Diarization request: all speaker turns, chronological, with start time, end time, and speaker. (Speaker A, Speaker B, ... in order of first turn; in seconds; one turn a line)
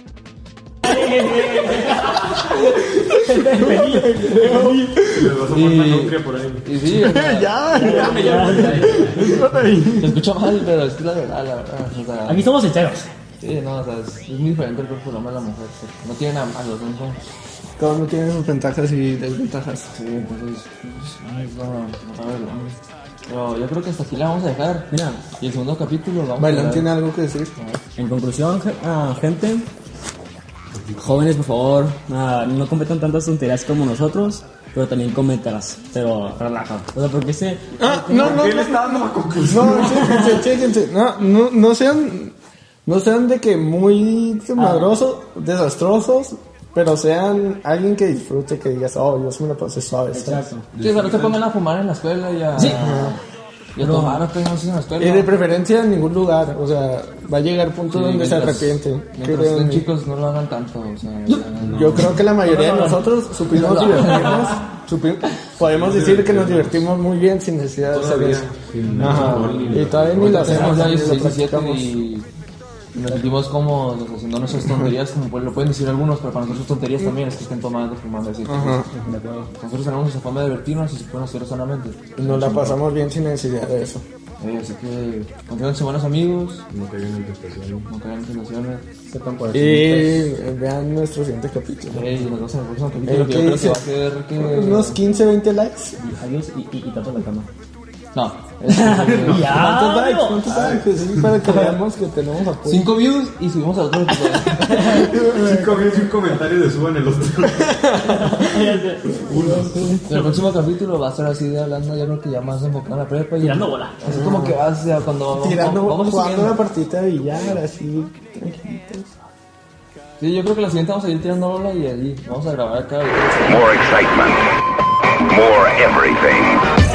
Speaker A: 0.8-5.0
Speaker B: 3.0-5.3
Speaker C: 5.0-6.7
Speaker D: 5.5-9.0
Speaker B: 6.9-10.2
Speaker A: 7.7-9.4
Speaker E: 8.1-8.9
Speaker D: 10.0-12.5
Speaker A: 12.2-13.1
Speaker D: 13.4-17.2
Speaker B: 17.8-19.9
Speaker D: 19.9-24.9
Speaker A: 24.9-25.2
Speaker D: 25.4-27.0
Speaker B: 26.4-27.5
Speaker A: 28.0-29.7
Speaker C: 30.7-31.2
Speaker A: 31.0-38.5
Speaker B: 37.8-42.3
Speaker C: 38.1-40.3
Speaker A: 39.8-40.4
Speaker B: 42.9-50.5
Speaker A: 44.5-44.9
Speaker A: 50.1-50.6
Speaker C: 50.7-51.4
Speaker D: 50.8-53.2
Speaker B: 52.5-53.2
Speaker D: 53.8-55.4
Speaker A: 53.8-54.2
Speaker B: 55.0-59.9
Speaker D: 57.9-62.1
Speaker C: 61.6-62.2
Speaker B: 61.7-68.5
Speaker A: 62.3-64.6
Speaker D: 63.5-64.6
Speaker C: 65.6-66.9
Speaker C: 67.9-70.6
Speaker E: 68.8-70.0
Speaker B: 69.0-72.0
Speaker D: 69.1-69.5
Speaker D: 70.2-72.2
Speaker A: 70.2-71.3
Speaker D: 73.0-78.8
Speaker B: 74.5-74.9
Speaker B: 78.4-78.9
Speaker A: 79.0-79.5
Speaker D: 79.6-82.8
Speaker B: 82.2-84.0
Speaker D: 84.4-86.6
Speaker C: 86.7-87.9
Speaker D: 87.9-88.8
Speaker E: 89.1-90.2
Speaker B: 89.5-92.1
Speaker D: 91.9-95.0
Speaker B: 93.0-93.8
Speaker B: 94.4-96.0
Speaker A: 96.0-97.5
Speaker D: 98.1-99.6
Speaker A: 98.7-100.5
Speaker C: 99.0-99.5
Speaker B: 99.4-102.9
Speaker D: 100.5-100.8
Speaker A: 101.5-101.7
Speaker D: 102.6-105.0
Speaker A: 104.6-105.3
Speaker B: 104.8-106.1
Speaker C: 105.0-108.3
Speaker B: 107.7-108.5
Speaker A: 108.1-109.2
Speaker C: 109.2-110.0
Speaker B: 109.2-110.0
Speaker D: 110.1-116.6
Speaker A: 113.4-114.0
Speaker B: 114.0-114.6
Speaker B: 115.3-119.1
Speaker D: 117.3-117.6
Speaker D: 120.2-123.8
Speaker F: 123.4-124.5
Speaker F: 125.3-126.6